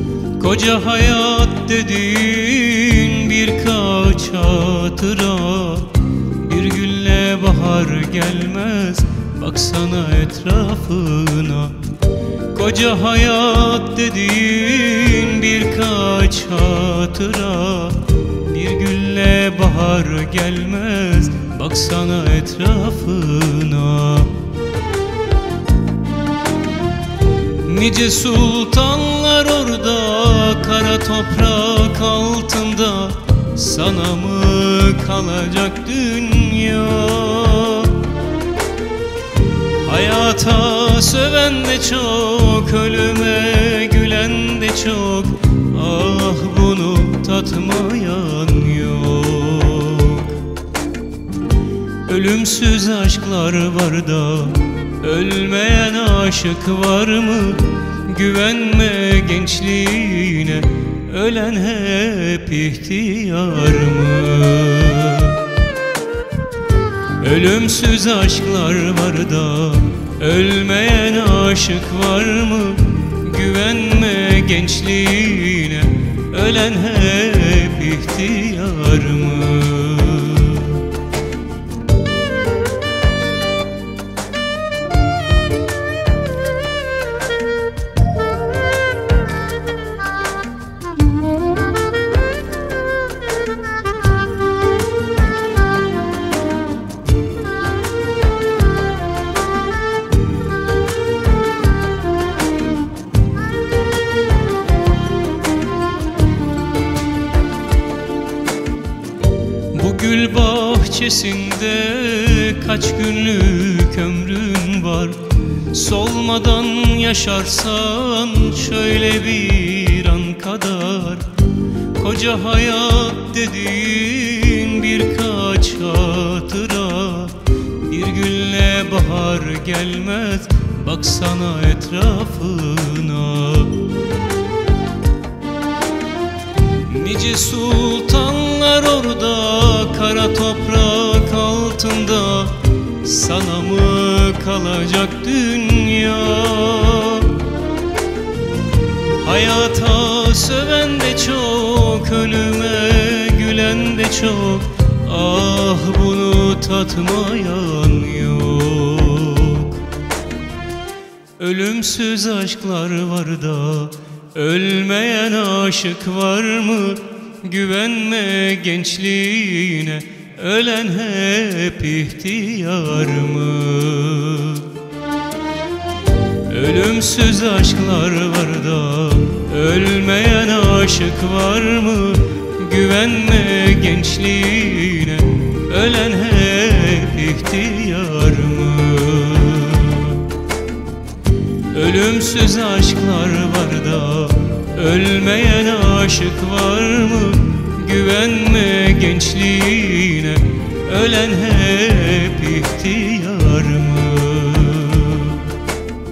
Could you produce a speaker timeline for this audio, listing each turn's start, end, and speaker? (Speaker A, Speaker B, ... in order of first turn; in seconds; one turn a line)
Speaker A: 0.3-11.9
Speaker A: 12.5-24.4
Speaker A: 27.6-38.1
Speaker A: 39.8-50.4
Speaker A: 52.0-65.5
Speaker A: 67.2-80.9
Speaker A: 109.7-121.3
Speaker A: 121.9-133.9
Speaker A: 136.8-147.5
Speaker A: 149.2-159.9
Speaker A: 161.4-174.8
Speaker A: 176.5-190.3
Speaker A: 191.7-205.6